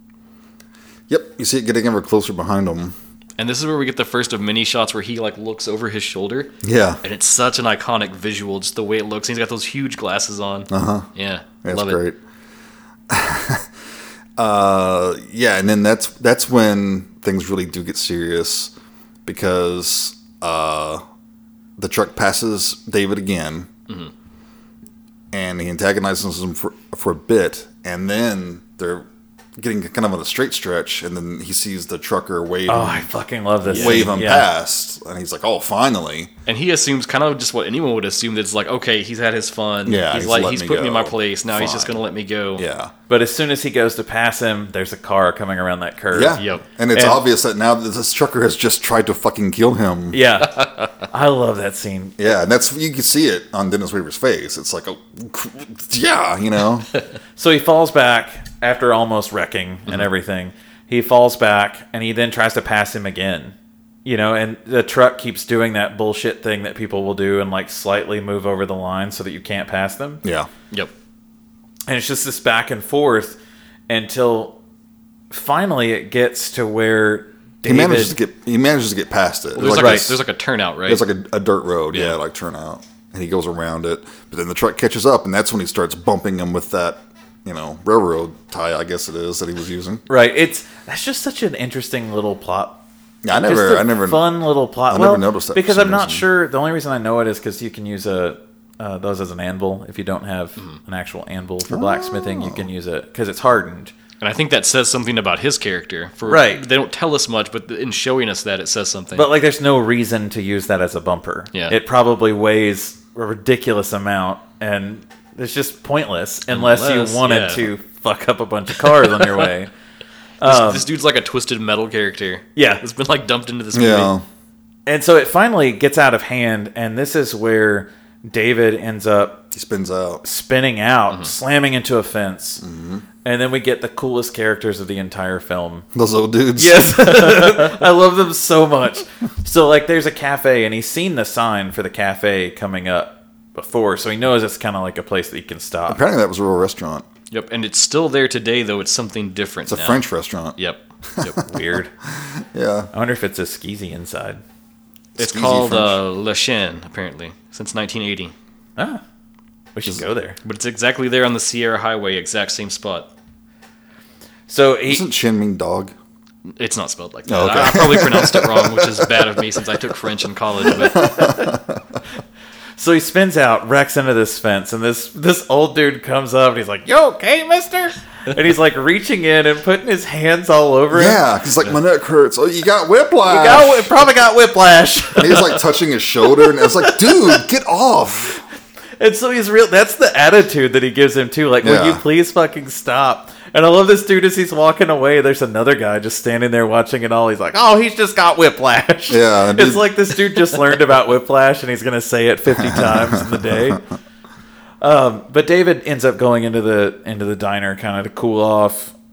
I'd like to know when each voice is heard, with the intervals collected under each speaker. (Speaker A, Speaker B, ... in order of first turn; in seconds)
Speaker A: 1.1-2.9, 6.6-7.0, 10.7-11.1, 11.6-12.2, 13.1-13.7, 14.4-18.7, 19.2-21.0, 21.8-23.7, 25.3-29.1, 29.6-33.1, 33.7-36.3, 39.8-42.0, 42.6-42.9, 46.1-50.2, 52.2-56.9, 70.2-70.5, 77.6-80.2, 80.8-90.0, 93.2-94.3, 94.9-96.2, 101.7-102.7, 123.7-124.2, 129.5-130.2, 132.6-133.0, 135.9-137.6, 145.9-147.1, 149.7-150.6, 151.1-151.4, 152.1-152.9, 155.2-156.0, 164.9-165.9, 167.3-169.7, 170.6-172.0, 180.9-183.9, 185.2-188.4, 191.6-192.0, 199.1-199.9, 202.6-203.8
Speaker B: 3.4-12.0, 33.7-34.1, 36.5-42.6, 46.4-46.6, 79.5-81.1, 81.9-82.2, 104.2-109.3, 116.5-117.7, 118.8-119.5, 120.4-124.1, 147.3-150.0, 150.6-151.4, 155.2-158.3, 160.4-163.1, 166.5-171.1
Speaker C: 32.7-34.5, 43.1-46.4, 46.9-47.2, 50.1-52.2, 57.4-70.2, 71.9-74.6, 75.3-78.2, 90.1-103.9, 106.2-106.6, 109.1-119.7, 120.4-120.8, 122.5-122.8, 124.8-129.4, 130.2-132.6, 133.2-135.8, 136.6-146.0, 151.4-151.9, 152.9-154.4, 159.7-160.4, 164.5-165.1, 172.8-181.2, 183.2-185.6, 186.4-187.4, 189.0-203.8, 204.8-208.9